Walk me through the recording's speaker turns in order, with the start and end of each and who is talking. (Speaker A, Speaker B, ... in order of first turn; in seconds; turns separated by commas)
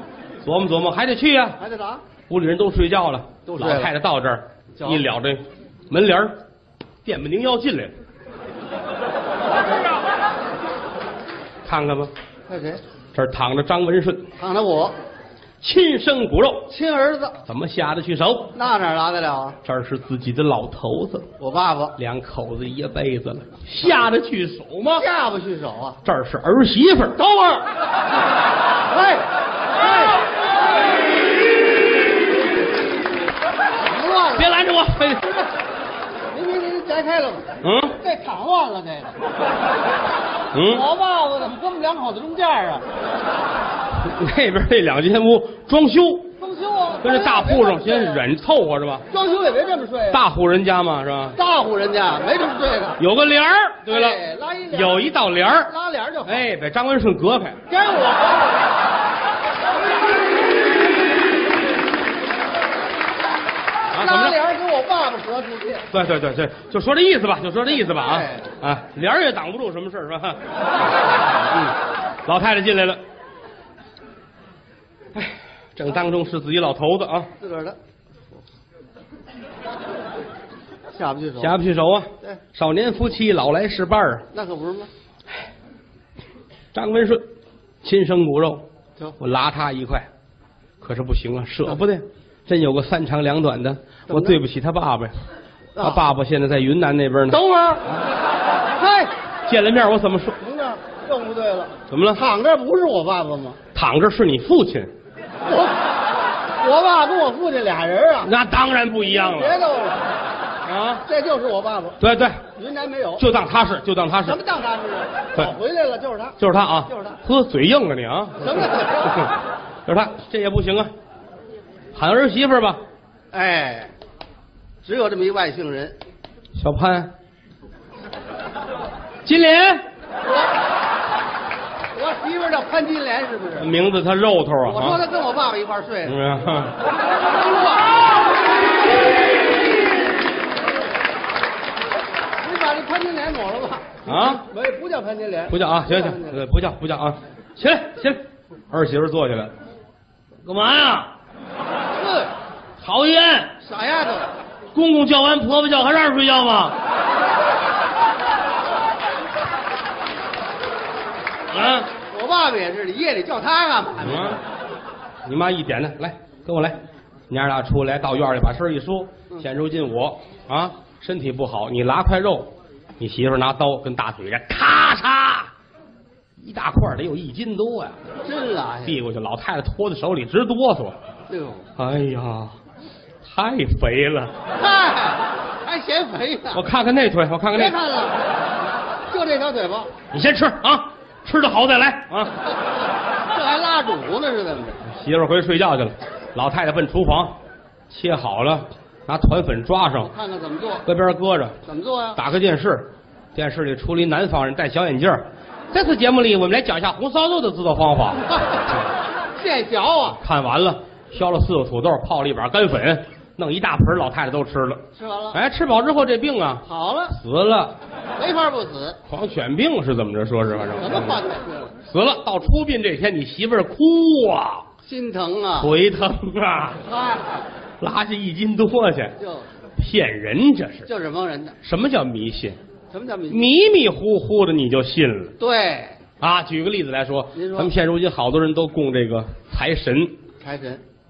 Speaker A: 0.4-1.6, Speaker B: 1.6-2.0, Speaker A: 2.3-6.4, Speaker B: 3.5-3.9, Speaker B: 4.8-5.0, Speaker A: 7.0-7.9, Speaker A: 11.6-12.1, Speaker B: 12.5-12.8, Speaker A: 13.1-14.3, Speaker B: 14.4-14.9, Speaker A: 15.6-16.7, Speaker B: 16.7-17.4, Speaker A: 17.4-18.5, Speaker B: 18.5-19.6, Speaker A: 19.6-21.3, Speaker B: 21.4-21.9, Speaker A: 22.0-25.0, Speaker B: 24.9-26.0, Speaker A: 26.0-27.2, Speaker B: 27.2-27.6, Speaker B: 28.9-29.2, Speaker B: 29.8-30.1, Speaker B: 33.8-34.5, Speaker A: 34.4-35.2, Speaker B: 36.3-39.1, Speaker A: 37.6-38.0, Speaker A: 40.5-40.9, Speaker B: 40.7-42.8, Speaker A: 44.0-46.3, Speaker B: 46.4-48.2, Speaker A: 47.0-49.0, Speaker B: 49.1-50.2, Speaker A: 50.1-51.4, Speaker B: 51.4-53.0, Speaker A: 53.0-55.7, Speaker B: 53.9-55.1, Speaker B: 55.6-56.5, Speaker A: 56.3-57.6, Speaker B: 57.7-58.5, Speaker A: 63.9-64.4, Speaker B: 63.9-65.8, Speaker A: 65.9-70.4, Speaker B: 67.7-68.5, Speaker A: 72.2-73.0, Speaker A: 75.1-77.3, Speaker B: 77.4-77.8, Speaker B: 80.9-81.6, Speaker A: 81.4-84.2, Speaker B: 84.3-84.9, Speaker A: 86.7-87.3, Speaker A: 87.8-88.6, Speaker A: 89.2-90.1, Speaker A: 90.8-95.1, Speaker B: 94.1-94.4, Speaker B: 95.8-96.0, Speaker A: 95.8-97.4, Speaker B: 97.3-97.8, Speaker B: 98.8-99.1, Speaker A: 99.5-100.4, Speaker B: 100.4-103.6, Speaker A: 101.9-102.2, Speaker A: 103.7-104.9, Speaker B: 105.5-105.8, Speaker B: 106.6-108.3, Speaker A: 108.2-109.6, Speaker B: 109.0-110.0, Speaker A: 110.7-111.0, Speaker B: 111.0-112.0, Speaker A: 112.0-112.4, Speaker B: 112.5-113.2, Speaker A: 113.2-114.4, Speaker B: 114.2-116.3, Speaker A: 116.4-119.3, Speaker B: 116.9-117.2, Speaker B: 118.4-119.2, Speaker A: 119.8-120.9, Speaker A: 121.9-122.8, Speaker B: 123.3-123.9, Speaker B: 124.8-126.0, Speaker A: 126.5-127.1, Speaker A: 129.2-129.8, Speaker B: 131.9-133.7, Speaker A: 133.6-135.0, Speaker B: 134.7-136.2, Speaker A: 136.1-136.7, Speaker B: 137.3-137.9, Speaker B: 142.4-146.4, Speaker A: 144.1-144.4, Speaker A: 145.5-149.5, Speaker A: 150.4-151.1, Speaker B: 151.9-152.3, Speaker A: 152.8-153.5, Speaker B: 153.6-154.3, Speaker A: 154.7-156.8, Speaker A: 161.5-161.9, Speaker B: 162.0-164.4, Speaker A: 164.0-164.4, Speaker A: 165.2-166.8, Speaker A: 167.3-175.5, Speaker A: 176.4-178.0, Speaker B: 178.2-179.0, Speaker A: 178.8-181.0, Speaker B: 181.3-181.7, Speaker A: 181.8-182.5, Speaker A: 183.2-184.3, Speaker B: 184.6-186.6, Speaker A: 186.5-187.8, Speaker B: 187.5-188.2, Speaker B: 189.1-189.9, Speaker A: 190.1-192.3, Speaker B: 193.3-194.8, Speaker A: 194.8-197.3, Speaker A: 197.9-200.1, Speaker B: 200.0-200.8, Speaker A: 200.8-201.6, Speaker B: 201.6-202.2, Speaker A: 202.1-208.6, Speaker B: 209.4-210.2, Speaker A: 210.2-217.8, Speaker B: 214.9-215.4, Speaker B: 216.6-217.2, Speaker B: 218.2-219.0, Speaker A: 219.1-221.2, Speaker B: 220.8-221.7, Speaker A: 221.8-224.7, Speaker B: 224.8-225.7, Speaker A: 225.6-226.8, Speaker B: 226.8-227.4, Speaker A: 227.8-229.2, Speaker B: 229.2-229.5, Speaker A: 229.8-230.9, Speaker B: 230.8-231.6, Speaker A: 231.6-232.6, Speaker B: 232.9-233.4, Speaker A: 233.3-235.3, Speaker B: 235.4-236.0, Speaker A: 236.2-240.2, Speaker B: 237.3-237.7, Speaker B: 240.4-240.8